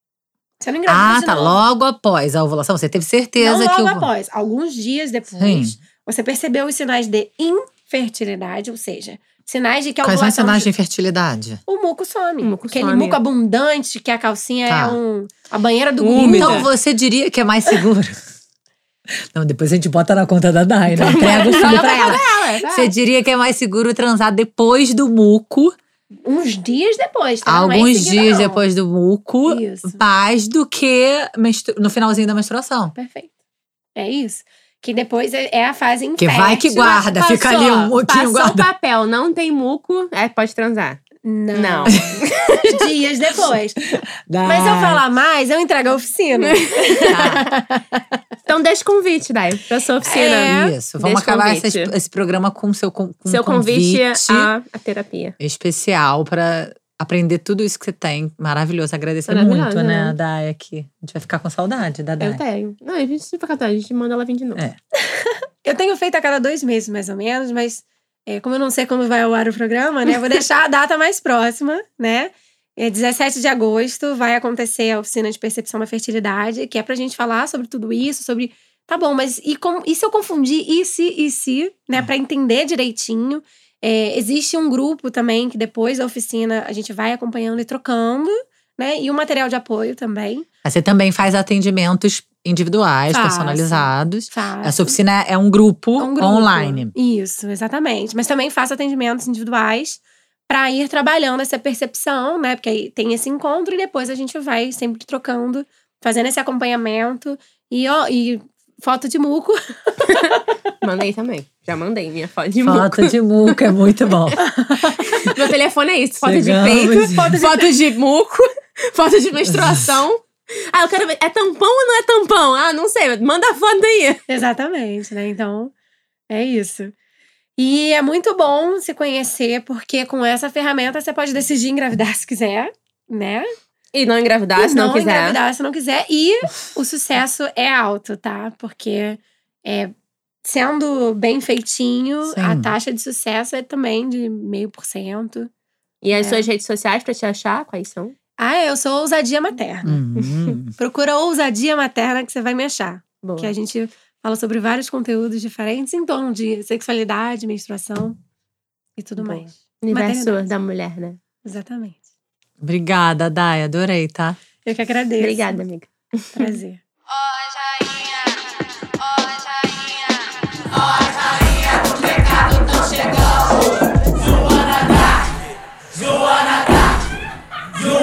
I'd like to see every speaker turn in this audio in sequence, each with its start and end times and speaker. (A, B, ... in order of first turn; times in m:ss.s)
0:00.6-0:01.6 A
0:00.9-0:04.1 B
0:03.4-0:10.7 A
0:05.4-0:05.8 B
0:10.0-0:11.6 B
0:11.7-0:16.6 A
0:12.4-0:13.2 C
0:14.7-0:15.0 B
0:16.0-0:16.7 C
0:16.2-0:18.2 B
0:19.3-0:25.7 B
0:21.0-0:22.9 A
0:21.0-0:22.6 C
0:26.2-0:28.6 A
0:27.4-0:32.9 B
0:29.5-0:30.0 A
0:33.0-0:33.3 A
0:34.0-0:37.0 A
0:36.2-0:38.7 B
0:36.8-0:42.7 C
0:41.2-0:43.8 A
0:41.9-0:42.2 B
0:44.2-0:45.0 B
0:44.4-0:48.2 A
0:46.4-0:47.3 C
0:47.1-0:47.5 B
0:48.5-0:51.9 C
0:50.0-0:50.7 A
0:50.4-0:54.5 B
0:53.3-0:55.4 C
0:55.4-1:02.4 B
0:59.3-1:00.1 C
1:02.2-1:04.6 C
1:05.1-1:30.4 A
1:30.6-1:36.9 B
1:33.1-1:35.0 A
1:36.0-1:50.4 A
1:50.0-1:53.6 C
1:52.6-1:55.3 B
1:54.4-1:55.3 A
1:55.1-2:04.2 C
1:56.2-1:57.4 B
1:56.9-1:57.7 A
1:59.5-2:00.0 B
2:04.3-2:05.7 A
2:06.3-2:06.9 A
2:07.6-2:13.5 A
2:13.9-2:15.4 C
2:14.6-2:19.9 A
2:20.4-2:25.5 A
2:22.3-2:22.7 B
2:26.0-2:28.2 C
2:26.1-2:26.5 A
2:28.4-2:30.0 A
2:29.8-2:30.7 B
2:30.2-2:30.5 C
2:30.8-2:38.2 A
2:33.2-2:33.5 C
2:39.0-2:40.5 A
2:39.2-2:41.2 C
2:41.4-2:42.0 A
2:42.6-2:44.4 B
2:44.6-2:45.6 A
2:45.2-2:46.6 C
2:46.3-2:46.8 A
2:47.7-2:48.2 A
2:49.0-2:50.1 A